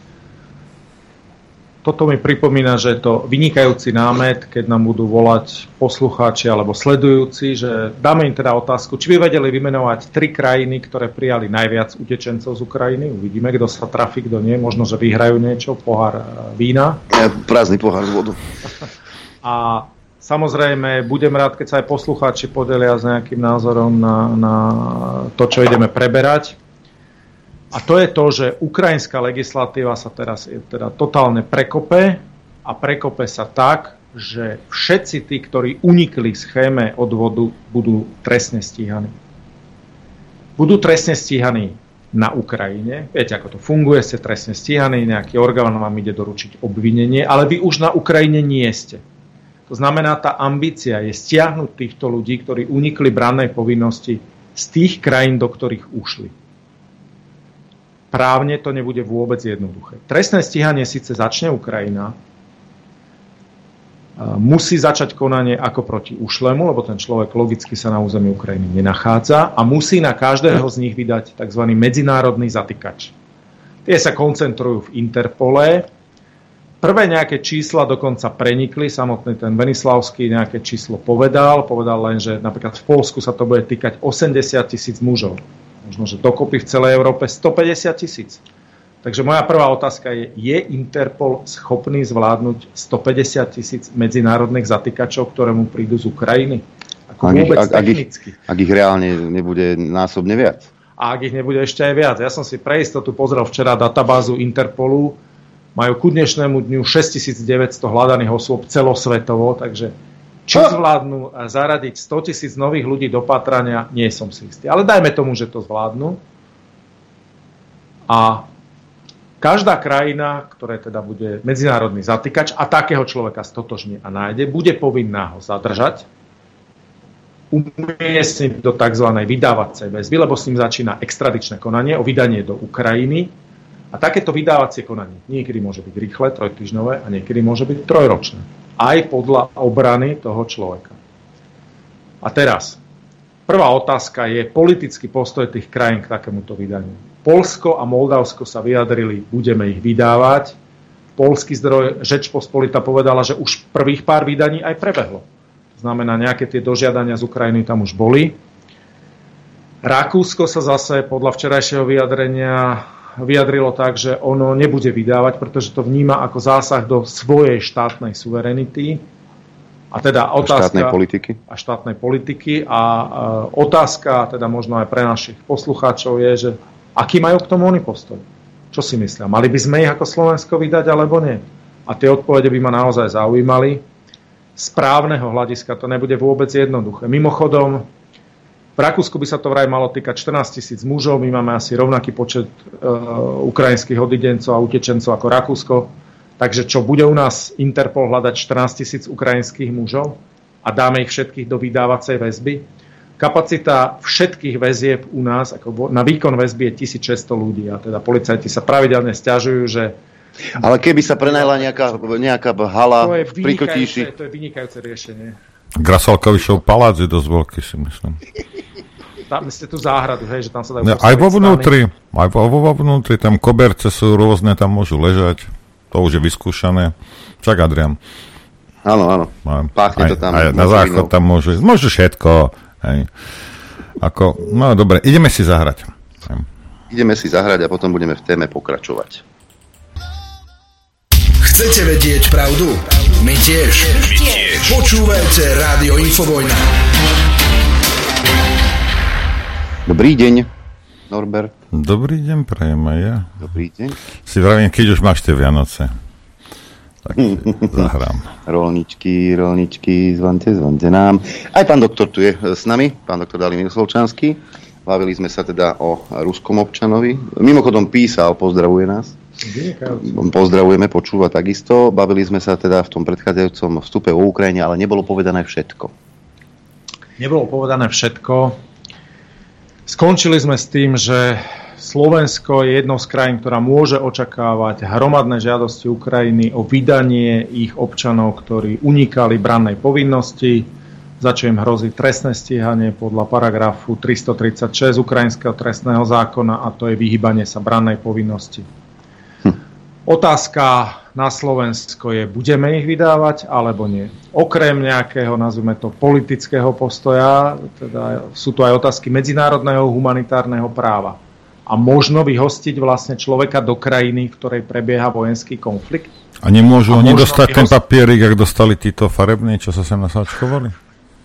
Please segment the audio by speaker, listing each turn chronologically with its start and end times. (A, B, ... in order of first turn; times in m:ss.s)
0:01.8-0:17.0 A
0:17.1-0:18.4 B
0:19.4-0:26.6 A
0:27.7-0:39.1 A
0:40.6-0:49.0 A
0:49.7-0:56.3 A
0:58.1-1:02.2 A
1:04.2-1:13.1 A
1:13.8-1:15.9 A
1:16.8-1:28.4 A
1:29.0-1:38.4 A
1:37.2-1:40.7 B
1:41.0-1:45.2 A
1:45.8-1:49.9 A
1:50.4-1:56.2 A
1:58.1-1:58.4 A
1:59.4-2:06.0 A
2:07.5-2:13.3 A
2:13.9-2:20.9 A
2:22.2-2:22.8 A
2:23.4-2:30.6 A
2:31.2-2:35.2 A
2:35.8-2:38.4 A
2:39.8-2:49.0 A
2:49.9-3:03.8 A
2:50.4-2:51.4 B
3:04.6-3:07.8 A
3:08.8-3:22.6 A
3:23.2-3:30.0 A
3:30.6-3:34.1 B
3:31.2-3:31.7 A
3:33.0-3:35.4 A
3:35.8-3:38.2 C
3:39.3-3:41.7 A
3:40.8-3:48.0 C
3:48.8-3:51.1 B
3:49.4-3:53.1 C
3:54.0-3:56.4 C
3:56.9-3:59.2 B
4:01.4-4:06.7 D
4:09.9-4:10.5 B
4:11.1-4:11.5 B
4:11.7-4:13.3 C
4:13.4-4:14.0 B
4:14.3-4:15.9 C
4:17.1-4:18.3 C
4:17.2-4:17.9 B
4:18.4-4:29.2 B
4:29.4-4:30.3 A
4:30.1-4:35.9 B
4:37.2-4:38.6 A
4:39.9-4:50.7 A
4:51.2-4:58.6 A
5:00.1-5:16.1 A
5:16.4-5:20.7 C
5:16.9-5:17.7 A